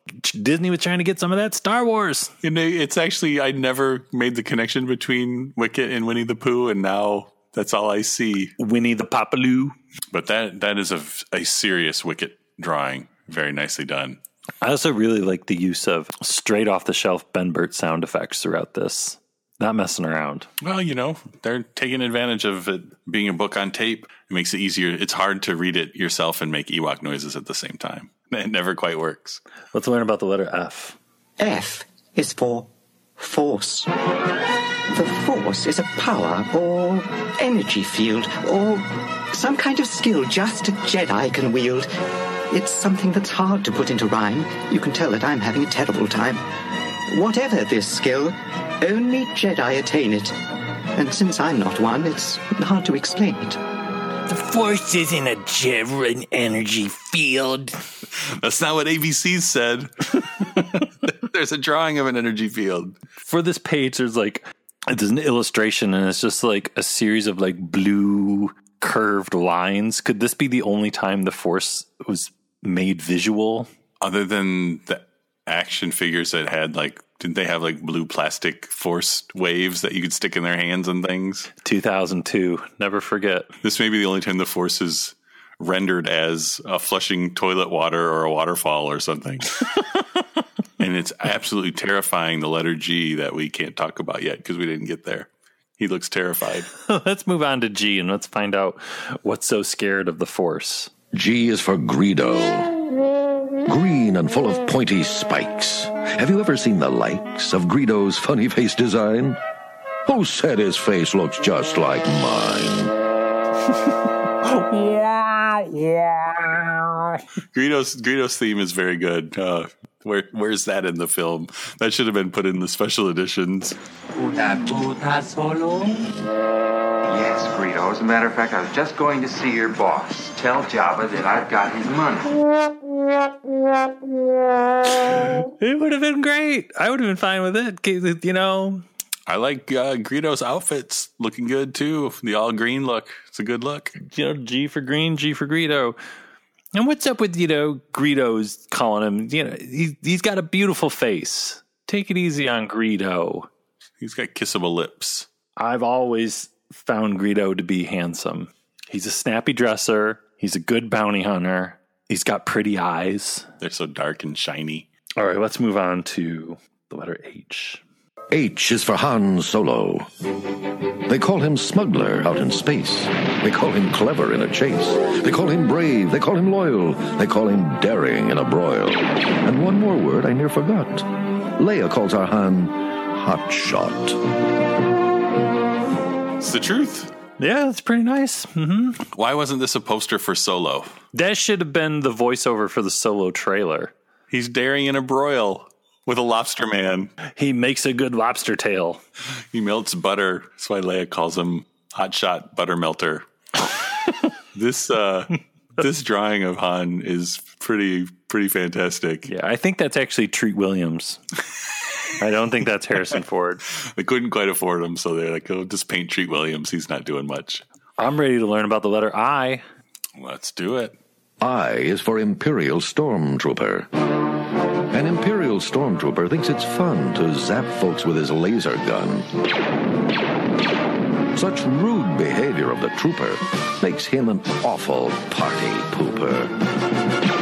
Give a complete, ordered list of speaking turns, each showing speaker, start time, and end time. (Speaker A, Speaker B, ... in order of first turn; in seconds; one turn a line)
Speaker A: 0.2-2.3
Speaker B: 2.4-8.5
Speaker A: 8.6-9.7
Speaker B: 10.1-14.2
Speaker A: 14.6-20.5
Speaker B: 20.6-29.4
Speaker A: 29.7-31.0
Speaker C: 31.4-33.9
Speaker C: 34.9-41.9
Speaker C: 42.5-46.4
Speaker C: 47.1-50.4
Speaker C: 50.9-53.6
Speaker A: 54.3-57.7
Speaker B: 58.2-63.0
Speaker A: 63.2-73.7
Speaker B: 74.0-81.5
Speaker A: 81.6-83.5
Speaker B: 83.6-89.5
Speaker B: 90.8-96.7
Speaker A: 96.8-100.9
Speaker D: 101.1-102.8
Speaker D: 103.7-109.4
Speaker D: 110.0-112.9
Speaker E: 114.5-116.9
Speaker B: 117.5-123.8
Speaker E: 124.2-126.0
Speaker F: 127.1-132.4
Speaker A: 135.3-138.8
Speaker B: 139.3-143.9
Speaker A: 144.0-146.0
Speaker A: 146.7-153.5
Speaker B: 154.0-155.3
Speaker A: 155.6-163.5
Speaker B: 163.6-164.9
Speaker A: 165.2-167.8
Speaker D: 168.3-170.1
Speaker D: 171.1-184.2
Speaker B: 186.4-187.1
Speaker A: 187.4-189.0
Speaker B: 189.1-191.0
Speaker A: 191.1-193.9
Speaker B: 194.3-197.1
Speaker A: 197.4-199.0
Speaker B: 199.5-203.2
Speaker B: 204.5-209.3
Speaker A: 209.2-211.2
Speaker A: 212.2-213.6
Speaker B: 213.9-217.6
Speaker A: 218.0-219.6
Speaker B: 220.2-220.9
Speaker D: 221.4-223.9
Speaker D: 224.9-229.3
Speaker D: 231.3-236.6